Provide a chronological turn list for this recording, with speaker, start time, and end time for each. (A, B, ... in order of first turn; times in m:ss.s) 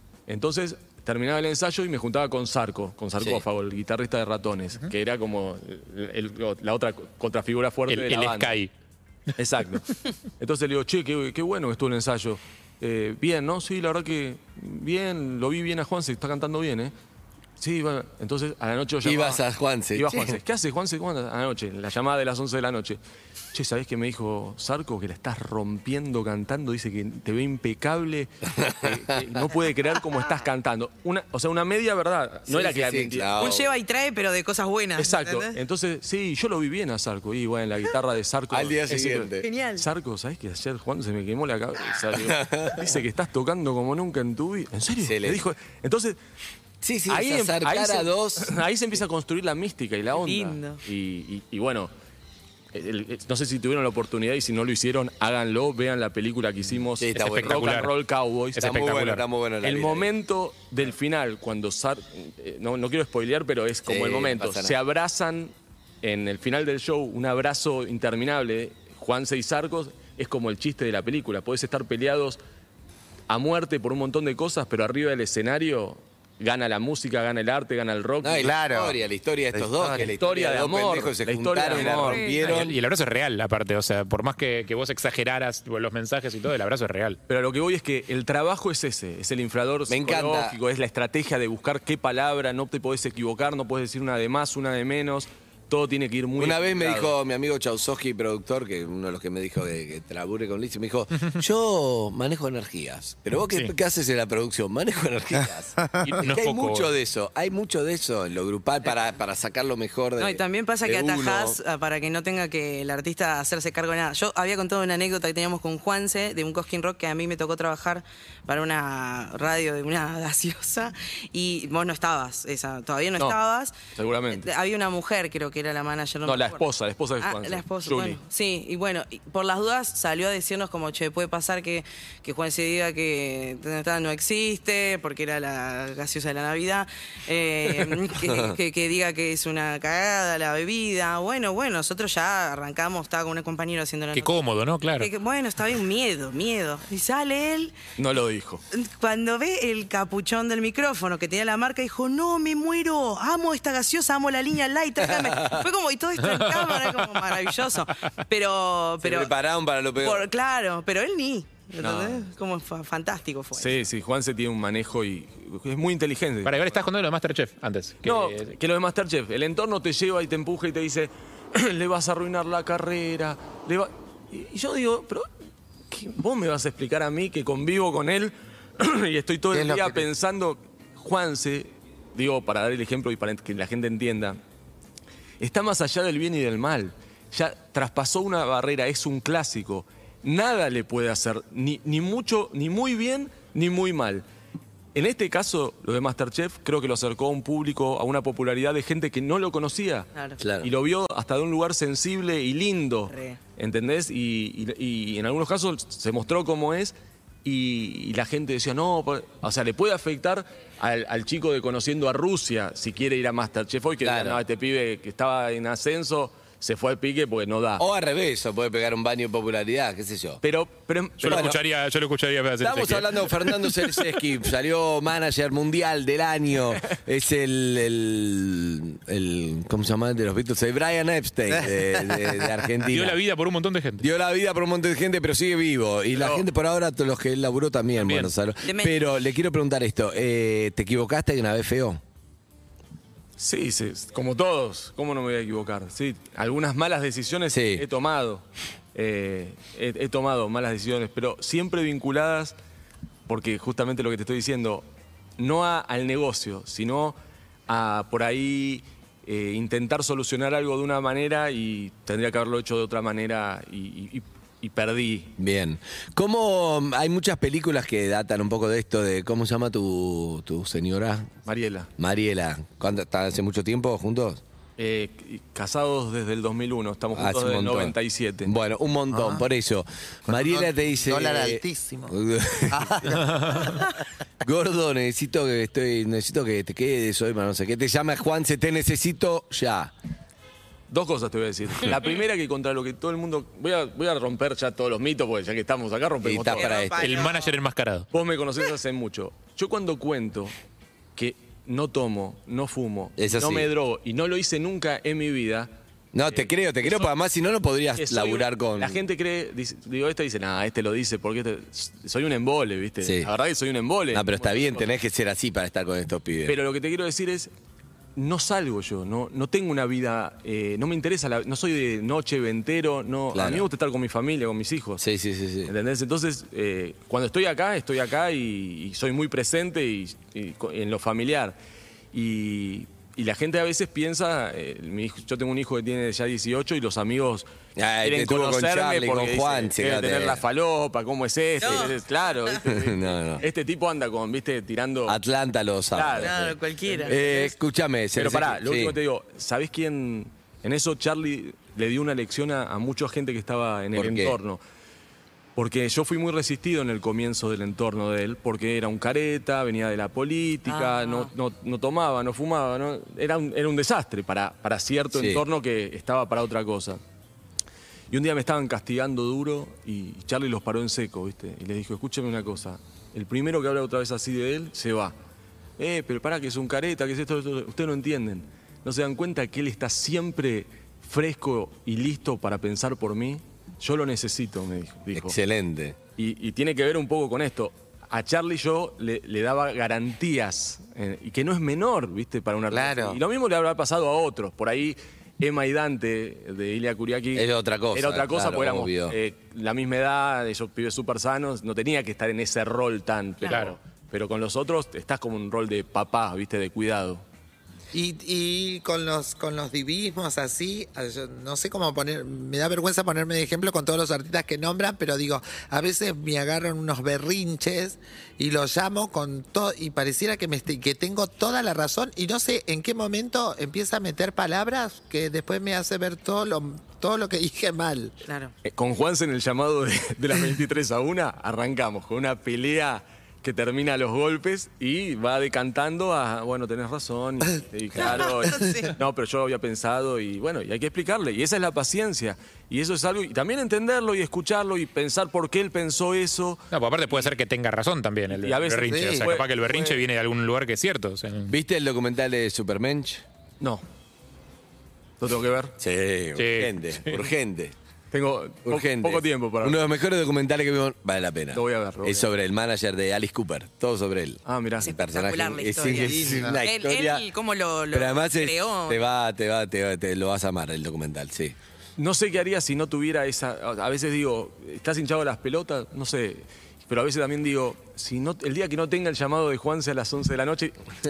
0:00.3-0:08.6 A
0:03.2-0:03.4 B
0:07.9-0:08.7 C
0:09.4-0:16.9 A
0:17.6-0:19.4 A
0:19.0-0:20.4 B
0:19.9-0:23.0 A
0:23.5-0:33.5 A
0:28.5-0:29.2 B
0:32.5-0:33.7 B
0:33.4-0:35.6 D
0:35.0-0:46.2 A
0:38.5-0:39.5 B
0:39.4-0:39.8 D
0:42.1-0:43.0 B
0:45.0-0:45.5 B
0:46.8-0:48.6 B
0:47.1-0:51.9 A
0:50.1-0:50.8 D
0:52.7-0:59.0 A
0:57.0-0:57.8 B
0:57.1-0:57.9 C
0:58.6-0:59.2 C
0:58.6-1:00.1 B
0:59.6-1:12.4 A
1:03.8-1:04.7 B
1:13.3-1:18.5 A
1:18.2-1:22.8 B
1:18.4-1:19.0 E
1:19.5-1:20.1 E
1:20.2-1:22.6 A
1:21.8-1:22.4 D
1:22.4-1:27.2 C
1:27.3-1:37.1 A
1:29.9-1:30.6 B
1:36.4-1:51.6 B
1:46.0-1:46.9 C
1:50.2-2:03.8 D
2:03.9-2:04.5 A
2:04.3-2:06.6 D
2:06.2-2:08.2 A
2:07.2-2:24.4 D
2:18.2-2:18.6 B
2:24.1-2:25.1 C
2:25.0-2:27.8 D
2:28.0-2:28.6 A
2:28.7-2:39.3 D
2:35.0-2:35.7 B
2:39.0-2:40.3 B
2:40.0-2:43.8 D
2:41.8-2:42.3 A
2:43.5-2:46.8 A
2:46.4-2:48.5 C
2:48.0-2:55.3 A
2:55.9-3:04.4 A
2:59.5-3:00.0 E
3:05.4-3:14.2 A
3:14.9-3:20.1 A
3:20.4-3:20.7 B
3:20.6-3:37.8 A
3:23.1-3:23.4 D
3:34.0-3:34.4 B
3:37.8-3:40.4 B
3:40.4-3:41.6 A
3:41.2-3:43.8 C
3:41.2-3:41.6 B
3:42.6-3:53.2 B
3:51.5-3:52.9 E
3:52.8-3:54.1 C
3:54.0-4:02.0 B
3:56.1-3:56.4 A
3:58.0-3:58.3 C
3:58.6-3:59.0 D
4:03.4-4:08.4 A
4:07.5-4:07.8 B
4:08.9-4:12.6 A
4:13.3-4:14.8 A
4:15.4-4:17.1 A
4:17.7-4:25.3 A
4:25.4-4:31.3 B
4:31.4-4:31.9 A
4:32.0-4:34.4 B
4:34.8-4:38.5 A
4:37.1-4:43.6 B
4:39.1-4:39.4 E
4:40.3-4:42.2 E
4:42.7-4:44.0 E
4:44.4-4:49.9 B
4:50.9-4:56.7 A
4:56.2-4:57.1 B
4:56.6-4:57.6 D
4:57.0-4:58.1 C
4:58.1-5:00.5 A
5:01.2-5:05.7 A
5:03.2-5:03.7 B
5:06.1-5:09.0 B
5:06.3-5:07.1 A
5:08.0-5:14.9 A
5:13.0-5:13.3 B
5:14.1-5:16.6 B
5:16.4-5:17.5 A
5:18.2-5:25.0 A
5:23.3-5:23.6 B
5:25.0-5:25.7 B
5:25.6-5:31.6 A
5:32.1-5:37.5 A
5:37.8-5:40.4 B
5:38.0-5:45.2 A
5:41.6-5:42.0 D
5:42.6-5:43.4 B
5:45.0-5:49.0 B
5:45.9-5:46.4 A
5:46.2-5:47.5 D
5:46.9-5:47.2 A
5:48.1-5:54.6 A
5:53.9-5:54.4 B
5:55.6-6:07.0 A
6:00.7-6:01.3 D
6:05.1-6:05.4 B
6:08.1-6:15.1 A
6:15.8-6:25.4 A
6:25.1-6:26.0 B
6:26.2-6:47.2 A
6:32.7-6:33.2 E
6:37.3-6:39.2 B
6:43.5-6:43.8 C
6:47.9-7:08.2 E
7:08.2-7:08.5 D
7:08.6-7:27.3 A
7:17.9-7:18.3 B
7:18.5-7:18.9 D
7:26.7-7:31.5 C
7:28.3-7:30.0 A
7:28.9-7:29.3 E
7:31.5-7:33.2 B
7:35.2-7:35.8 A
7:35.8-7:37.7 B
7:36.4-7:37.3 C
7:38.1-7:39.8 A
7:38.6-7:47.2 B
7:41.5-7:42.3 A
7:44.4-7:44.9 A
7:44.8-7:49.0 D
7:45.8-7:46.6 E
7:47.9-7:51.6 B
7:52.0-8:00.8 A